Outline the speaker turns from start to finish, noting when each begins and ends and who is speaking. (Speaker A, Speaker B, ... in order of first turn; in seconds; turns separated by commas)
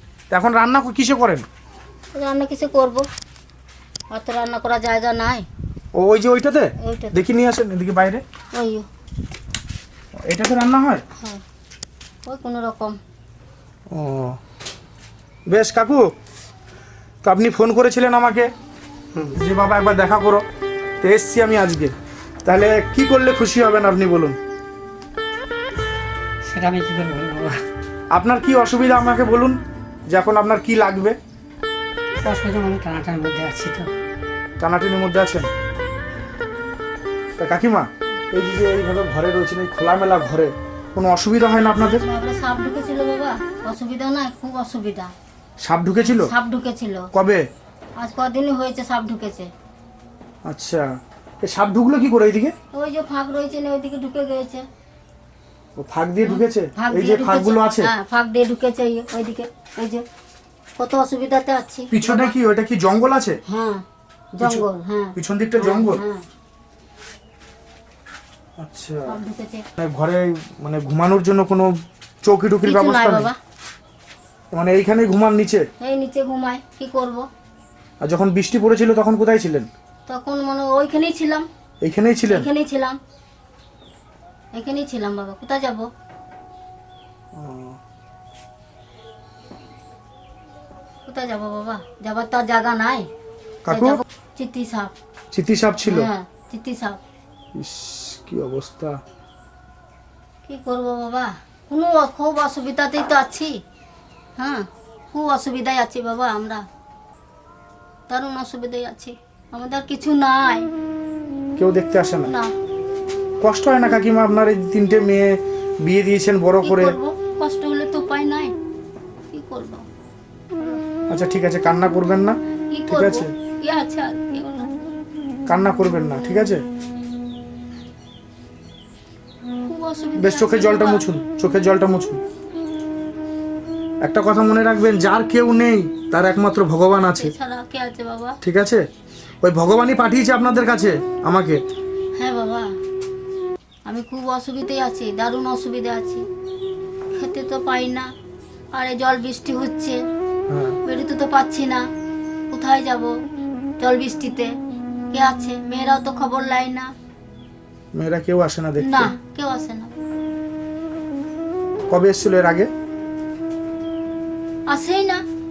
Speaker A: 0.3-1.4, Speaker B: 2.1-3.0, Speaker B: 4.1-5.5, Speaker A: 6.0-8.2, Speaker B: 6.8-7.3, Speaker B: 8.6-8.8, Speaker A: 10.3-11.0, Speaker B: 12.3-13.0, Speaker A: 13.9-14.4, Speaker A: 15.5-16.1, Speaker A: 17.2-18.5, Speaker A: 19.3-20.4, Speaker A: 21.0-21.9, Speaker A: 22.4-24.4, Speaker C: 26.4-27.6, Speaker A: 28.1-29.6, Speaker A: 30.1-31.2, Speaker C: 32.2-33.9, Speaker A: 34.6-35.5, Speaker A: 37.4-42.0, Speaker B: 42.0-45.1, Speaker A: 45.6-46.3, Speaker B: 46.0-47.1, Speaker A: 47.1-47.4, Speaker B: 48.0-49.5, Speaker A: 50.5-50.9, Speaker A: 51.4-52.5, Speaker B: 52.7-54.6, Speaker A: 55.8-57.9, Speaker B: 56.2-60.0, Speaker B: 60.8-62.3, Speaker A: 61.9-63.4, Speaker B: 63.5-66.2, Speaker A: 65.2-66.0, Speaker A: 68.6-69.2, Speaker B: 69.1-69.7, Speaker A: 69.8-71.7, Speaker A: 72.2-73.3, Speaker B: 72.6-73.4, Speaker A: 74.5-75.7, Speaker B: 75.8-77.2, Speaker A: 78.0-79.7, Speaker B: 80.1-81.5, Speaker A: 81.8-82.5, Speaker B: 82.2-83.0, Speaker B: 84.5-85.9, Speaker A: 87.3-87.8, Speaker B: 91.1-93.1, Speaker A: 93.7-94.0, Speaker B: 93.7-94.9, Speaker A: 95.3-96.1, Speaker B: 95.8-97.0, Speaker A: 97.6-99.0, Speaker B: 100.5-103.5, Speaker B: 104.4-106.6, Speaker B: 108.1-110.7, Speaker A: 111.6-112.3, Speaker B: 112.2-112.5, Speaker A: 113.4-117.0, Speaker B: 116.6-118.5, Speaker B: 119.3-119.9, Speaker A: 121.1-123.3, Speaker B: 122.7-124.7, Speaker A: 125.5-126.6, Speaker B: 129.6-131.1, Speaker A: 130.2-132.2, Speaker A: 134.0-137.3, Speaker B: 137.2-138.4, Speaker A: 138.4-138.8, Speaker A: 139.4-141.6, Speaker B: 142.2-142.7, Speaker B: 143.9-146.2, Speaker B: 147.2-148.1, Speaker B: 148.7-150.0, Speaker A: 150.5-150.8, Speaker B: 150.9-151.8, Speaker B: 152.5-153.1, Speaker B: 153.8-154.5, Speaker B: 155.1-156.9, Speaker A: 157.9-159.1, Speaker B: 158.8-159.9, Speaker A: 161.9-162.7, Speaker B: 164.7-165.2